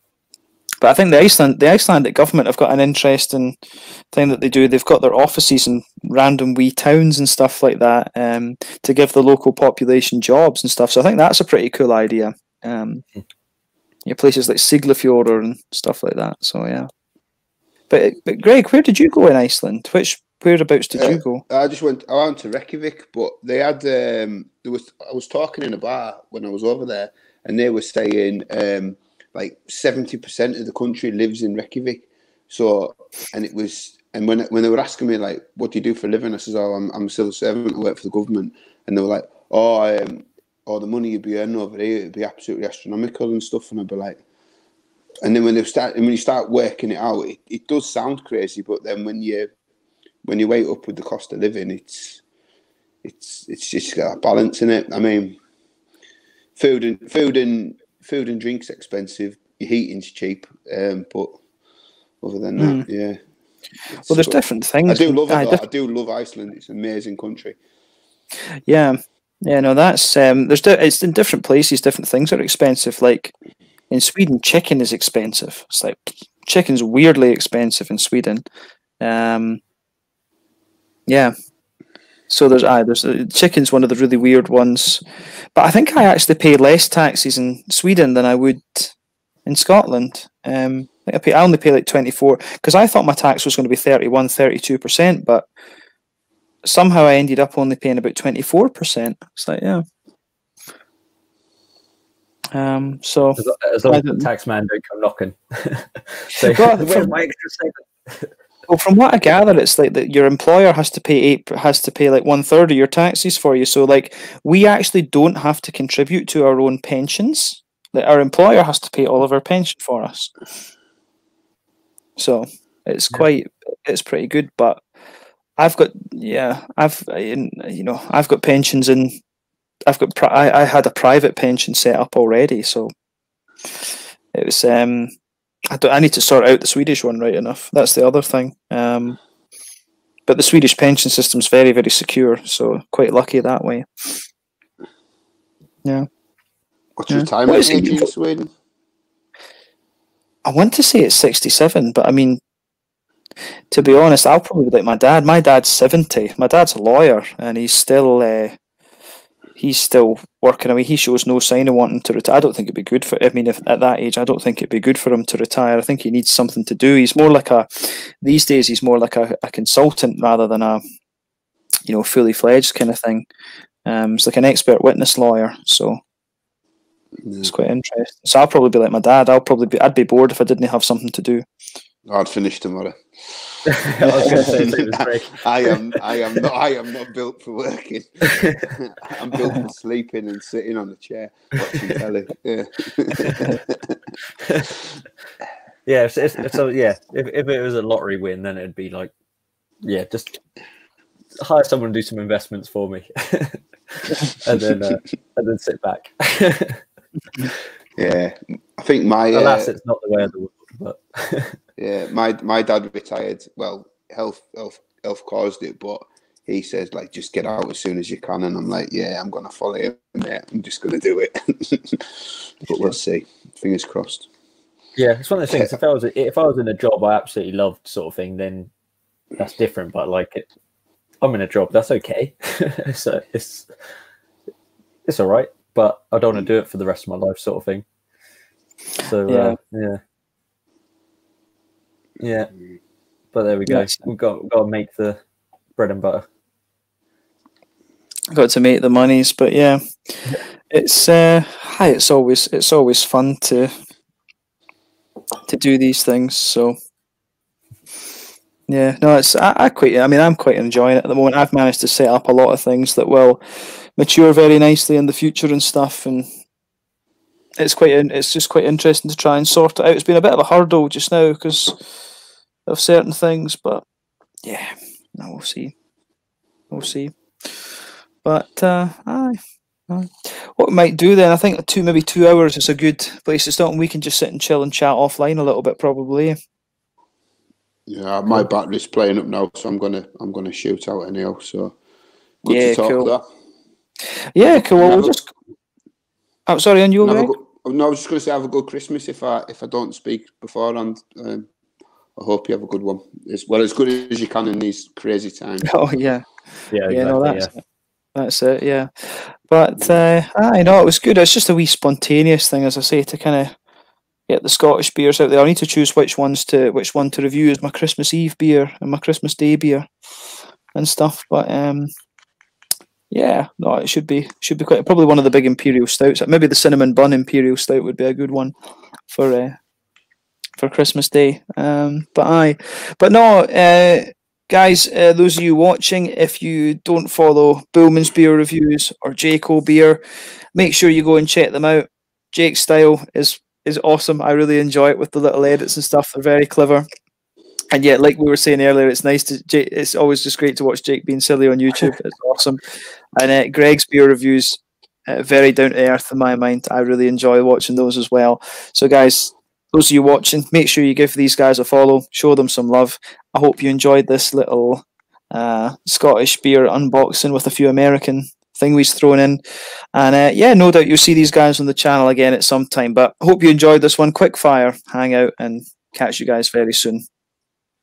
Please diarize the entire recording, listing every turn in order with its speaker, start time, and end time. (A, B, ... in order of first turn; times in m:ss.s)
0:00.8-0:03.6 A
0:04.1-0:13.0 A
0:14.1-0:16.9 A
0:17.9-0:21.4 A
0:20.9-0:44.2 B
0:45.2-0:49.5 B
0:50.2-0:52.2 B
0:53.0-0:55.4 B
0:56.6-1:01.4 B
1:02.2-1:03.2 B
1:02.6-1:02.9 A
1:04.0-1:07.6 B
1:04.0-1:05.6 A
1:08.7-1:13.3 A
1:13.9-1:18.4 A
1:19.0-1:19.6 A
1:21.1-1:21.3 A
1:22.3-1:25.0 A
1:25.6-1:28.9 A
1:29.5-1:35.5 A
1:36.6-1:39.8 A
1:42.6-1:44.3 A
1:43.4-1:48.3 C
1:46.4-1:47.1 A
1:48.7-2:00.3 A
2:02.2-2:04.8 A
2:05.6-2:09.2 A
2:09.9-2:12.9 A
2:14.3-2:15.1 A
2:15.7-2:19.2 A
2:20.3-2:24.1 A
2:27.0-2:28.5 B
2:27.1-2:28.1 A
2:30.4-2:32.4 A
2:33.7-2:38.6 A
2:39.6-2:50.8 A
2:51.9-2:53.3 A
2:53.9-2:56.0 A
2:57.2-2:57.5 B
2:57.4-3:01.4 A
3:02.1-3:03.6 B
3:03.7-3:06.0 C
3:04.0-3:04.6 A
3:04.2-3:14.0 B
3:08.3-3:08.8 C
3:13.2-3:13.5 C
3:14.5-3:14.8 C
3:15.9-3:19.1 C
3:19.8-3:20.4 C
3:21.4-3:26.8 C
3:28.0-3:29.7 B
3:29.3-3:31.6 C
3:31.8-3:44.3 B
3:45.0-3:48.7 C
3:45.5-3:45.8 B
3:49.4-3:50.5 C
3:51.2-3:53.7 C
3:55.1-3:57.8 C
3:59.0-4:00.0 C
3:59.3-3:59.6 A
4:02.2-4:02.5 C
4:03.3-4:05.2 C
4:03.7-4:04.1 A
4:05.8-4:06.3 C
4:08.3-4:13.7 A
4:15.5-4:16.8 A
4:18.7-4:23.4 A
4:24.0-4:26.3 A
4:27.6-4:31.8 A
4:32.7-4:33.8 A
4:34.4-4:35.7 A
4:36.7-4:37.6 A
4:38.2-4:39.4 A
4:39.9-4:46.4 A
4:47.9-4:51.8 B
4:52.4-4:53.2 B
4:52.5-4:53.1 A
4:54.4-4:55.3 A
4:54.4-4:55.2 B
4:56.5-4:57.3 A
4:57.0-5:01.5 B
5:02.2-5:05.7 B
5:05.7-5:06.2 A
5:06.7-5:07.5 C
5:06.9-5:07.6 A
5:08.2-5:13.6 A
5:14.3-5:19.9 A
5:20.7-5:21.9 A
5:23.1-5:28.5 A
5:29.1-5:29.6 A
5:30.6-5:40.0 A
5:40.6-5:46.9 A
5:47.7-5:52.6 A
5:53.2-6:09.4 A
6:09.9-6:17.0 A